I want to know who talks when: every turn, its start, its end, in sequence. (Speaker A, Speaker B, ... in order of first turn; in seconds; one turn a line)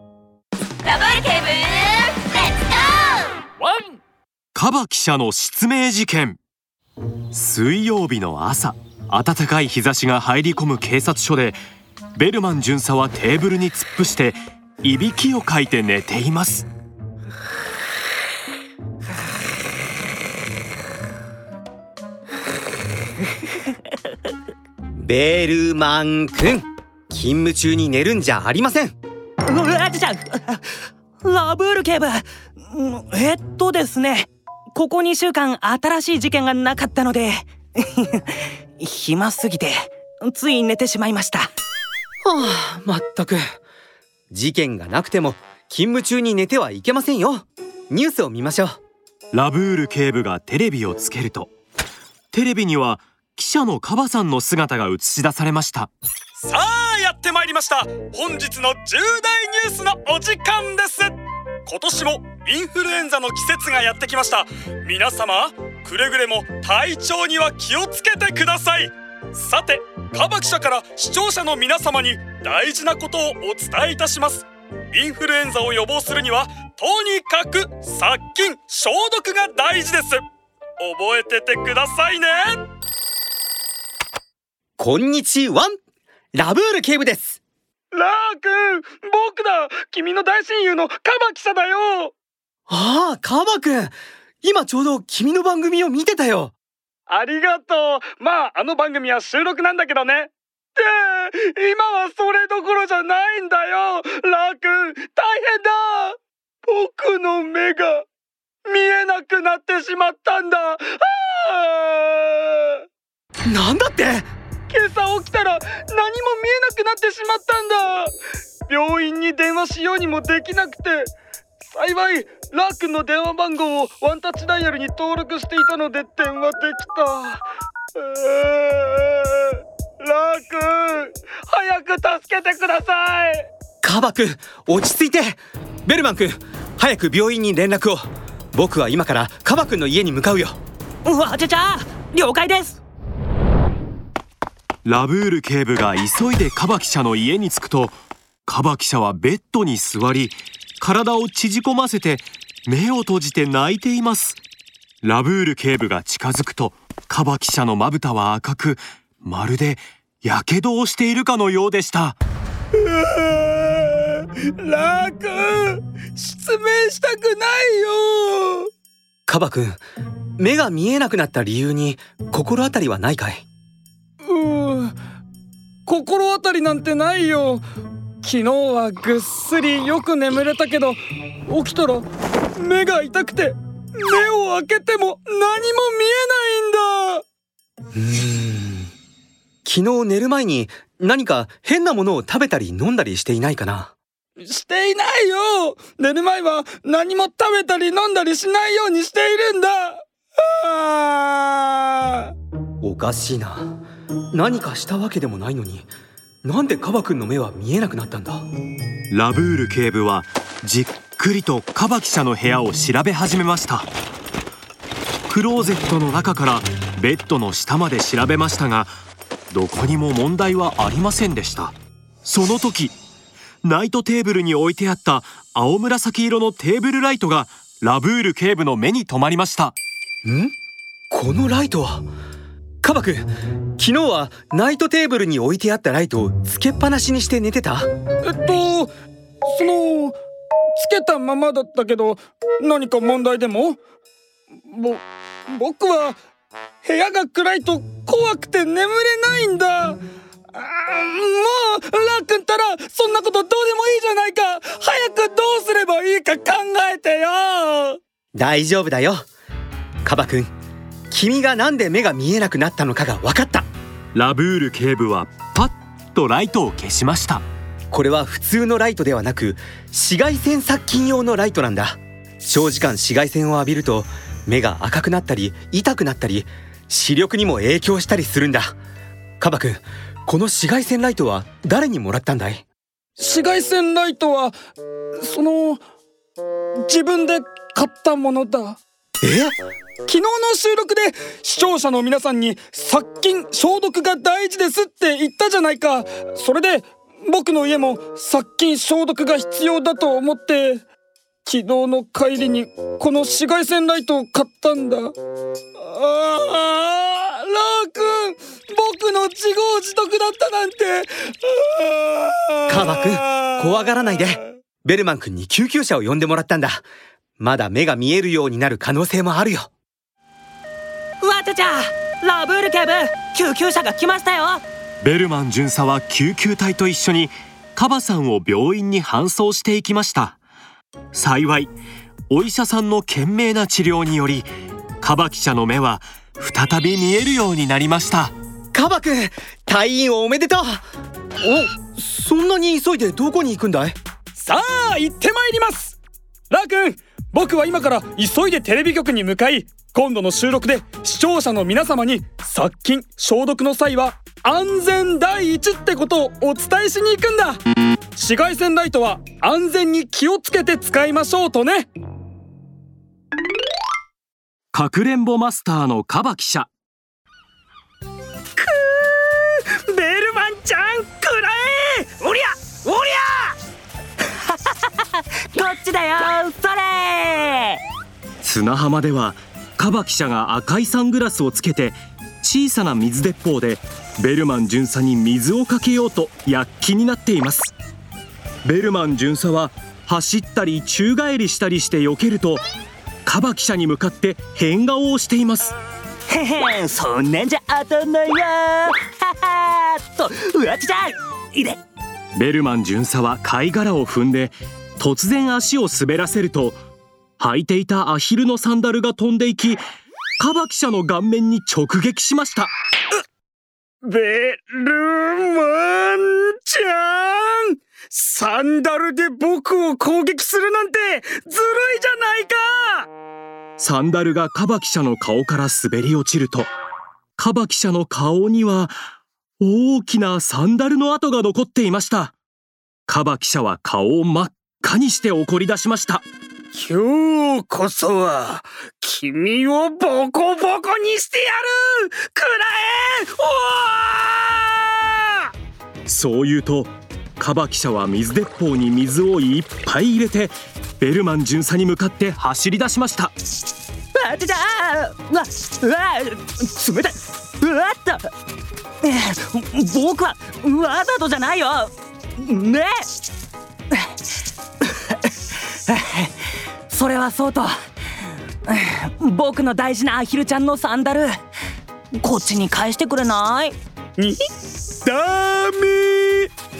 Speaker A: 0.8-3.3
Speaker B: 4.5-6.4
Speaker B: 7.3-11.6
Speaker B: 12.2-16.7
Speaker C: 25.0-28.9
Speaker D: 29.4-30.7
Speaker D: 31.2-41.5
Speaker C: 42.2-43.4
Speaker C: 44.3-48.8
Speaker B: 49.3-51.5
Speaker B: 52.3-55.9
Speaker E: 56.4-80.2
Speaker E: 80.8-82.7
Speaker C: 84.8-85.8
Speaker C: 86.3-87.4
Speaker E: 87.9-92.1
Speaker C: 92.7-96.5
Speaker E: 97.1-108.0
Speaker E: 108.7-112.8
Speaker C: 113.5-114.3
Speaker E: 114.7-118.1
Speaker E: 118.7-121.1
Speaker E: 121.7-133.5
Speaker C: 133.8-140.6
Speaker D: 141.0-142.8
Speaker B: 144.8-154.4
Speaker B: 155.0-162.2
Speaker E: 162.7-168.7
Speaker C: 169.3-169.8
Speaker C: 170.4-173.4
Speaker E: 174.2-174.9
Speaker E: 175.9-177.6
Speaker E: 178.2-182.1
Speaker E: 182.6-187.2
Speaker C: 187.9-188.9
Speaker C: 189.6-193.9
Speaker E: 194.4-202.3
Speaker C: 202.8-203.8
Speaker C: 204.3-205.9
Speaker C: 206.4-208.4
Speaker B: 209.1-213.9
Speaker B: 215.3-218.9
Speaker B: 219.5-221.7
Speaker B: 222.2-222.9
Speaker B: 223.6-229.8
Speaker C: 230.2-230.5
Speaker C: 231.1-232.1
Speaker C: 232.8-237.9
Speaker E: 238.2-238.9
Speaker E: 239.4-240.2
Speaker E: 240.8-243.8
Speaker E: 244.7-246.2
Speaker E: 246.8-250.0
Speaker E: 250.5-258.0
Speaker C: 258.3-259.3
Speaker C: 260.0-260.5
Speaker C: 261.1-263.7
Speaker B: 264.1-267.4
Speaker C: 267.9-278.8
Speaker C: 279.4-282.6
Speaker E: 283.2-284.5
Speaker E: 285.2-285.8
Speaker E: 286.8-288.8
Speaker C: 289.2-289.5
Speaker E: 290.0-300.8
Speaker E: 301.4-305.1
Speaker E: 305.8-313.5
Speaker C: 312.7-316.9
Speaker C: 317.4-319.7
Speaker D: 321.2-324.6
Speaker B: 325.0-330.4
Speaker B: 331.1-331.7
Speaker B: 332.3-338.3
Speaker C: 338.7-340.8
Speaker C: 341.4-343.9
Speaker E: 344.4-346.0
Speaker E: 346.5-357.6
Speaker E: 358.1-361.9
Speaker B: 364.7-366.7
Speaker E: 368.6-372.9
Speaker D: 372.9-373.2
Speaker D: 374.5-377.8
Speaker B: 378.4-387.7
Speaker B: 388.6-392.6
Speaker B: 393.2-395.7
Speaker D: 396.3-401.8
Speaker B: 402.3-406.8
Speaker B: 407.4-409.8
Speaker B: 410.4-412.7
Speaker E: 414.0-423.1
Speaker B: 423.8-426.7
Speaker B: 427.4-428.9
Speaker B: 429.6-432.3
Speaker B: 433.1-436.2
Speaker E: 436.7-445.3
Speaker B: 446.1-453.3
Speaker D: 454.1-458.3
Speaker D: 459.0-462.9
Speaker D: 464.8-465.3
Speaker D: 465.9-466.4
Speaker D: 466.9-467.7
Speaker D: 468.6-471.3
Speaker D: 472.1-473.8
Speaker E: 475.0-476.5